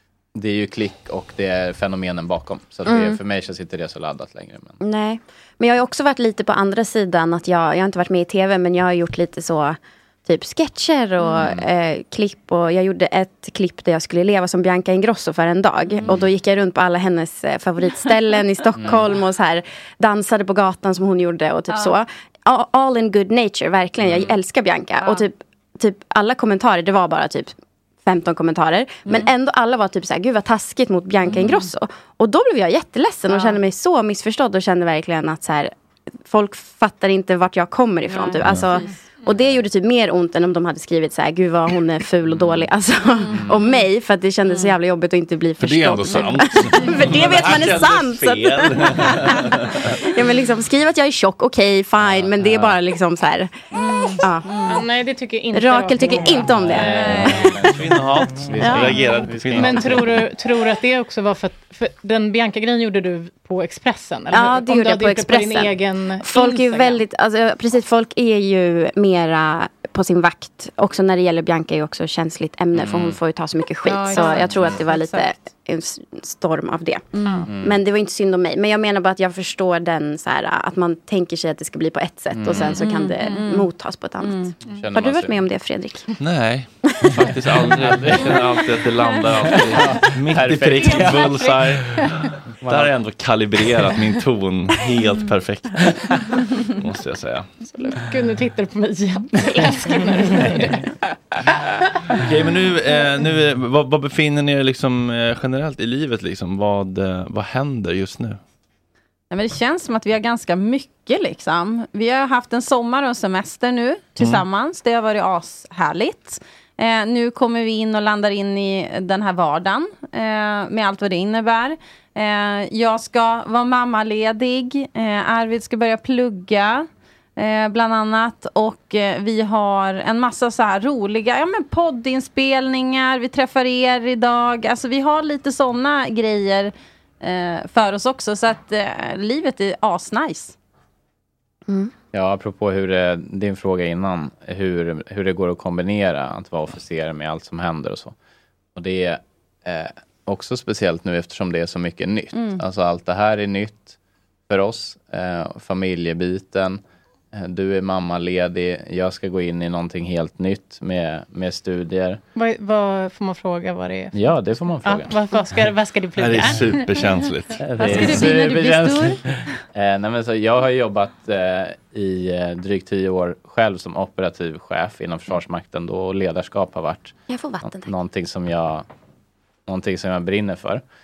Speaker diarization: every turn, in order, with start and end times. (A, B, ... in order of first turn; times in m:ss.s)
0:00.3-0:04.8 A
0:02.8-0:03.2 B
0:04.8-0:27.5 B
0:11.3-0:11.6 A
0:18.8-0:19.1 A
0:24.0-0:24.4 A
0:28.0-0:35.7 B
0:36.2-0:53.5 B
0:38.1-0:38.6 C
0:42.3-0:42.6 A
0:45.6-0:49.8 D
0:52.0-0:52.7 A
0:53.8-0:54.8 C
0:54.2-0:54.6 B
0:54.6-0:57.4 E
0:55.5-0:57.5 B
0:56.6-1:00.1 A
0:57.2-1:00.1 D
0:58.6-0:58.9 B
0:59.5-1:07.0 E
1:04.3-1:05.7 B
1:06.2-1:17.1 B
1:12.7-1:13.2 A
1:14.0-1:14.5 E
1:14.0-1:14.4 C
1:14.4-1:14.8 A
1:17.5-1:17.8 A
1:17.6-1:26.0 B
1:22.3-1:22.8 A
1:22.7-1:23.7 C
1:23.2-1:23.5 E
1:24.2-1:24.5 C
1:24.7-1:25.4 A
1:26.2-1:37.5 D
1:27.8-1:28.3 A
1:29.8-1:31.3 A
1:30.9-1:31.5 E
1:32.6-1:32.9 A
1:37.7-1:40.9 E
1:42.2-1:48.4 D
1:49.3-2:20.5 C
2:22.1-2:28.1 A
2:28.8-2:34.0 A
2:32.3-2:32.6 C
2:34.5-2:36.8 A
2:37.3-2:42.2 A
2:42.4-2:44.3 E
2:44.1-2:45.1 A
2:44.8-2:47.0 E
2:46.2-2:47.6 D
2:47.6-2:58.8 A
2:47.8-2:49.1 B
2:47.8-2:49.0 C
2:47.9-2:48.2 E
2:57.3-2:57.9 B
2:59.7-3:00.8 A